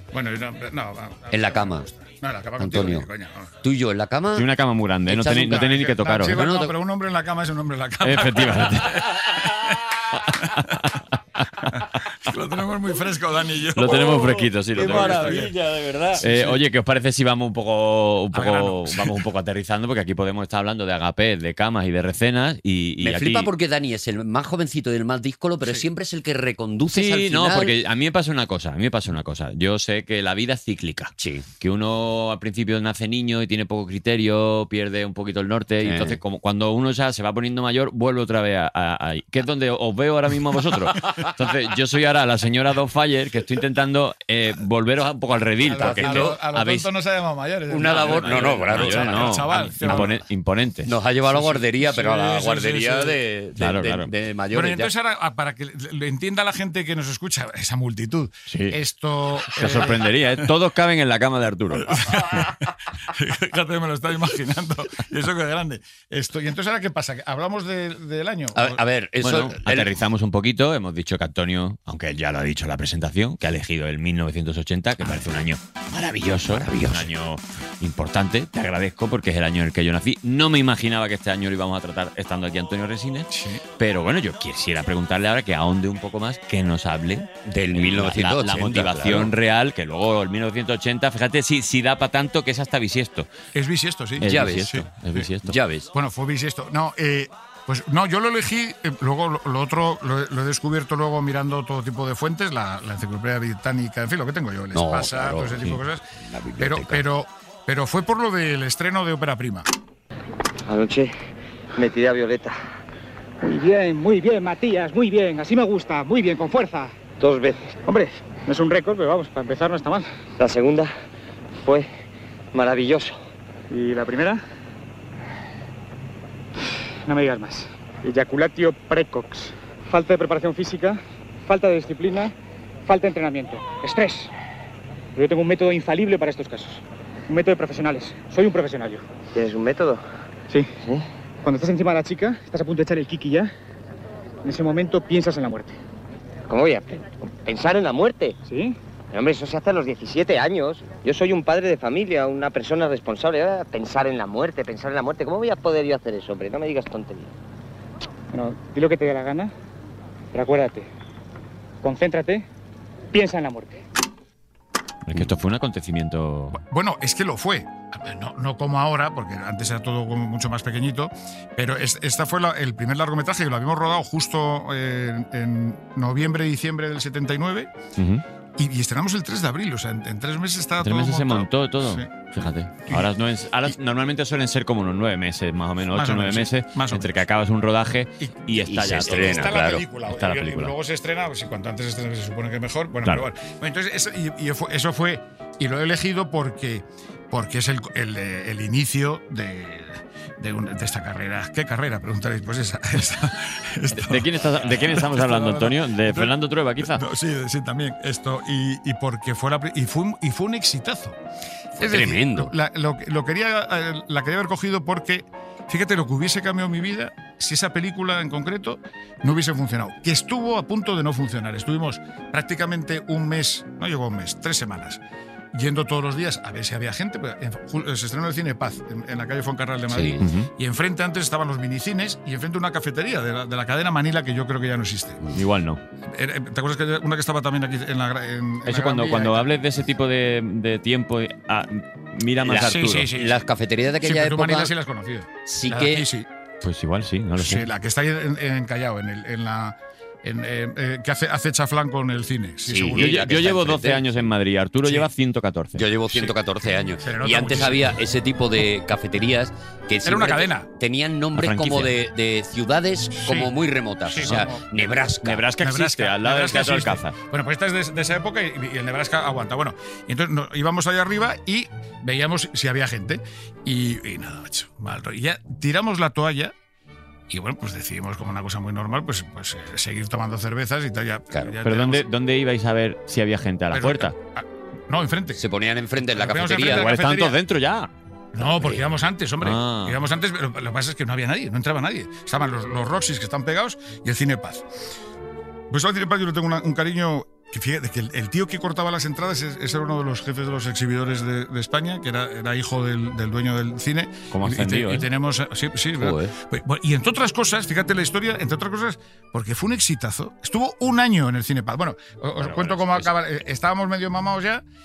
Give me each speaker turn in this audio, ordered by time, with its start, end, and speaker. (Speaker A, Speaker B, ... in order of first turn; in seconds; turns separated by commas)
Speaker A: 0.1-3.6, Speaker B: 1.3-1.9, Speaker B: 2.6-3.1, Speaker B: 3.6-4.5, Speaker C: 4.3-6.4, Speaker B: 5.1-6.7, Speaker A: 5.5-10.7, Speaker C: 8.0-9.5, Speaker C: 10.3-12.1, Speaker A: 11.7-15.6, Speaker C: 13.7-23.5, Speaker A: 16.2-16.6, Speaker A: 18.3-19.2, Speaker B: 23.0-27.7, Speaker C: 26.9-46.9, Speaker B: 31.2-31.4, Speaker B: 35.8-36.2, Speaker A: 45.6-50.2, Speaker B: 45.8-46.4, Speaker B: 47.7-50.1, Speaker C: 47.8-50.9, Speaker B: 50.9-54.9, Speaker A: 51.3-53.2, Speaker C: 53.6-54.1, Speaker A: 54.5-60.5, Speaker C: 58.5-58.8, Speaker C: 59.5-62.2, Speaker A: 61.8-68.8, Speaker B: 68.5-69.9, Speaker C: 69.2-93.3, Speaker B: 75.0-75.3, Speaker B: 76.0-77.1, Speaker A: 83.3-83.6, Speaker B: 87.5-89.3, Speaker A: 93.5-95.2, Speaker C: 94.2-95.5, Speaker B: 94.2-94.7, Speaker B: 95.4-95.9, Speaker A: 95.9-106.0, Speaker B: 104.7-107.0, Speaker A: 106.6-109.7, Speaker D: 110.7-111.1, Speaker D: 111.7-112.5, Speaker E: 113.4-116.9, Speaker D: 117.2-117.8, Speaker E: 117.8-120.0, Speaker D: 120.4-120.9, Speaker D: 121.6-121.9, Speaker D: 122.5-123.2, Speaker E: 123.7-124.4, Speaker E: 127.1-132.3, Speaker E: 132.8-134.3, Speaker E: 135.2-139.0, Speaker D: 139.3-140.0, Speaker E: 141.4-143.5, Speaker E: 144.4-145.7, Speaker D: 146.5-148.4, Speaker E: 148.4-148.8, Speaker D: 149.1-157.3, Speaker E: 158.3-159.5, Speaker E: 160.3-160.9, Speaker E: 161.8-162.4, Speaker E: 163.1-163.8, Speaker C: 165.1-166.6, Speaker A: 166.5-177.7, Speaker C: 178.0-178.2, Speaker A: 178.6-182.3, Speaker C: 180.8-190.7, Speaker A: 185.9-187.2, Speaker A: 188.2-211.2, Speaker B: 188.6-189.8, Speaker C: 203.9-207.0, Speaker A: 211.8-225.0, Speaker B: 211.8-212.5, Speaker A: 225.5-235.2, Speaker B: 229.9-230.2, Speaker C: 230.2-230.5, Speaker C: 235.3-235.8, Speaker A: 236.1-239.5, Speaker C: 238.7-243.1, Speaker B: 242.4-244.7, Speaker A: 242.5-243.4, Speaker A: 244.0-246.3, Speaker B: 245.4-246.1, Speaker C: 246.6-247.7, Speaker A: 247.4-253.2, Speaker B: 252.7-254.0, Speaker C: 252.9-255.8, Speaker B: 255.8-265.4, Speaker A: 257.0-258.0, Speaker A: 260.0-260.7, Speaker C: 261.4-261.9, Speaker A: 263.1-263.5, Speaker A: 264.1-264.6, Speaker C: 265.2-267.1, Speaker A: 265.6-276.5, Speaker A: 277.3-282.1, Speaker C: 281.6-284.1, Speaker A: 283.7-285.4, Speaker B: 285.4-286.9, Speaker A: 286.1-287.4, Speaker C: 286.6-287.9, Speaker A: 288.3-294.6, Speaker C: 289.4-290.0, Speaker A: 295.7-314.6, Speaker C: 304.3-305.1, Speaker B: 306.0-306.3, Speaker C: 312.4-313.1